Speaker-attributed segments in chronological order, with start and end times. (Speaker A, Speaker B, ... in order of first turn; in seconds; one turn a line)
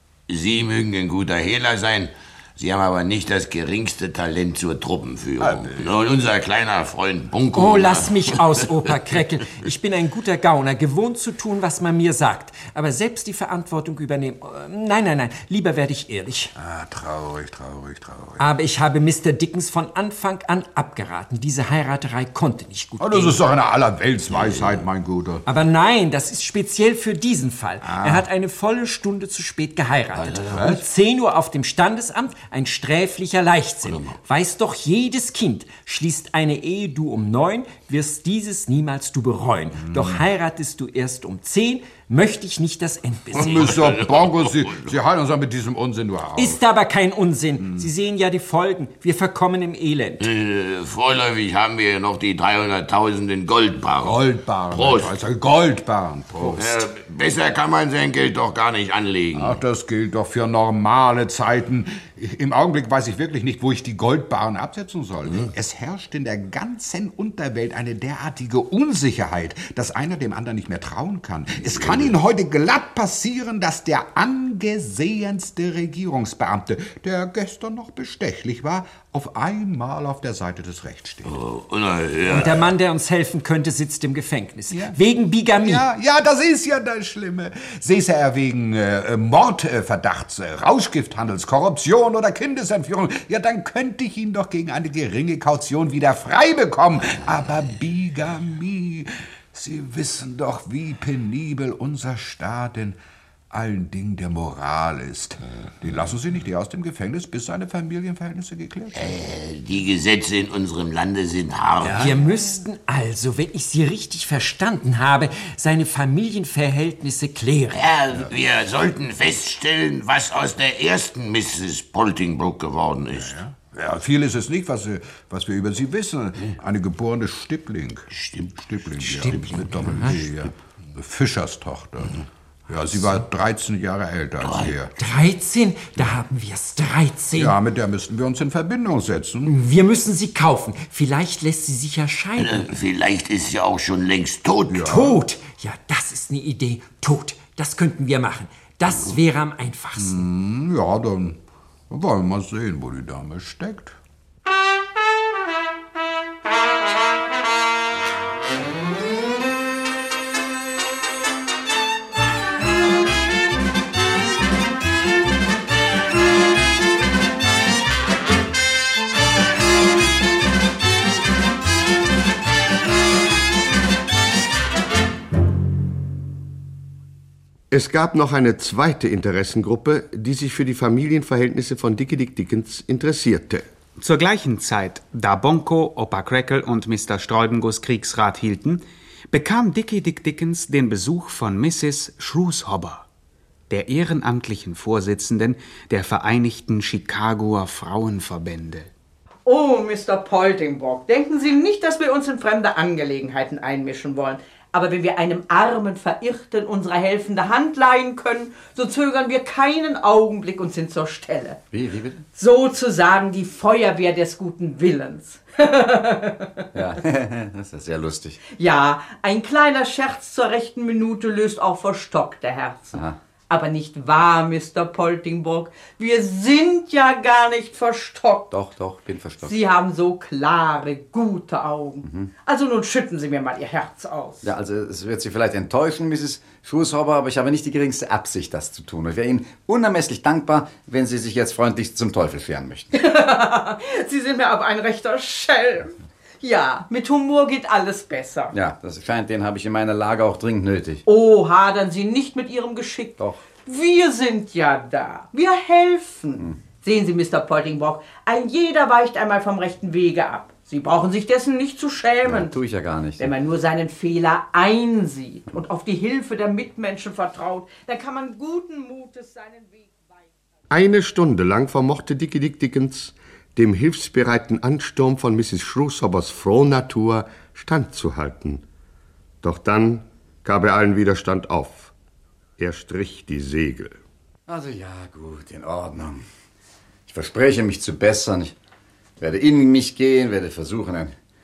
Speaker A: 0.3-8.4
Speaker B: 5.4-6.0
Speaker C: 7.5-16.5
Speaker B: 16.6-18.4
Speaker C: 18.4-23.4
Speaker B: 23.0-25.4
Speaker C: 25.4-43.8
Speaker B: 27.8-28.3
Speaker A: 30.2-30.5
Speaker B: 30.5-30.8
Speaker B: 39.8-40.2
Speaker B: 43.3-46.6
Speaker A: 43.3-44.7
Speaker C: 46.3-50.2
Speaker B: 47.6-47.9
Speaker A: 50.2-55.1
Speaker B: 54.0-56.9
Speaker A: 56.5-59.6
Speaker B: 59.3-81.4
Speaker A: 81.3-82.6
Speaker C: 82.2-85.9
Speaker B: 84.7-85.0
Speaker B: 85.5-103.0
Speaker B: 103.5-109.2
Speaker A: 109.0-112.1
Speaker B: 111.8-112.2
Speaker C: 111.9-117.8
Speaker A: 117.7-123.3
Speaker B: 123.1-134.9
Speaker A: 128.1-129.6
Speaker A: 134.4-134.7
Speaker C: 135.0-137.6
Speaker B: 137.3-139.6
Speaker C: 139.4-142.6
Speaker A: 142.4-144.8
Speaker B: 144.7-145.2
Speaker C: 144.8-150.2
Speaker B: 150.0-154.0
Speaker D: 177.7-183.6
Speaker E: 184.0-193.1
Speaker E: 193.7-198.9
Speaker F: 199.4-211.6
Speaker G: 211.7-212.2
Speaker F: 212.3-216.8
Speaker G: 216.7-218.4
Speaker F: 218.5-228.5
Speaker G: 228.5-229.6
Speaker F: 229.4-234.5
Speaker G: 232.0-232.3
Speaker G: 234.4-242.9
Speaker F: 242.9-248.6
Speaker G: 248.5-251.0
Speaker F: 251.0-262.6
Speaker G: 262.2-263.3
Speaker F: 263.2-270.3
Speaker D: 270.7-278.6
Speaker D: 279.4-281.9
Speaker D: 282.6-284.0
Speaker G: 284.5-286.2
Speaker G: 287.1-288.5
Speaker G: 289.2-291.1